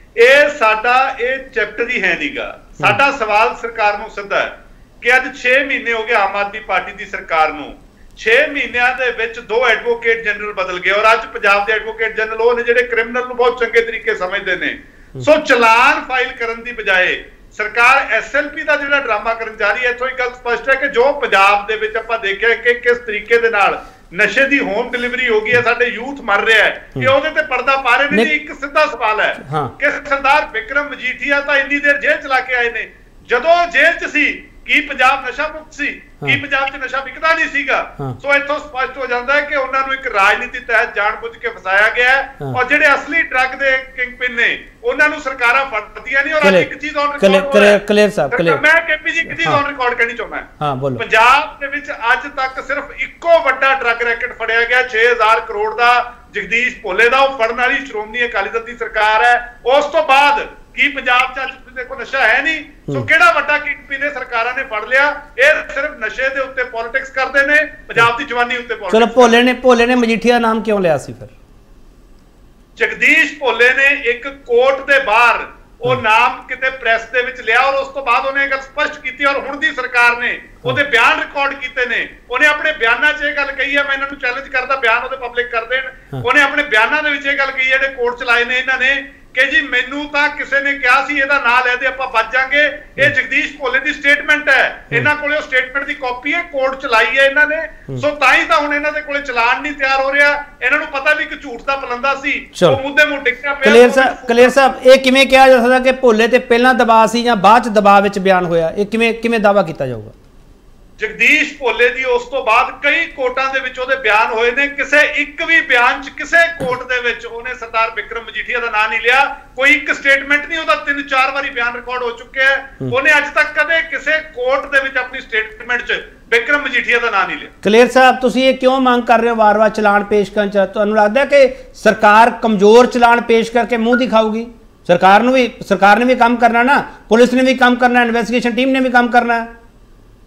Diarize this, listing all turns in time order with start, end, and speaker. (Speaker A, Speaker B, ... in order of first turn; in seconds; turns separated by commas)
Speaker A: 0.2-69.4, Speaker B: 29.4-29.7, Speaker B: 46.4-48.6, Speaker B: 49.3-49.6, Speaker B: 50.6-51.0, Speaker B: 68.9-71.3, Speaker A: 72.8-104.7, Speaker B: 102.5-102.8, Speaker B: 103.6-110.1, Speaker A: 111.0-127.5, Speaker B: 127.6-139.5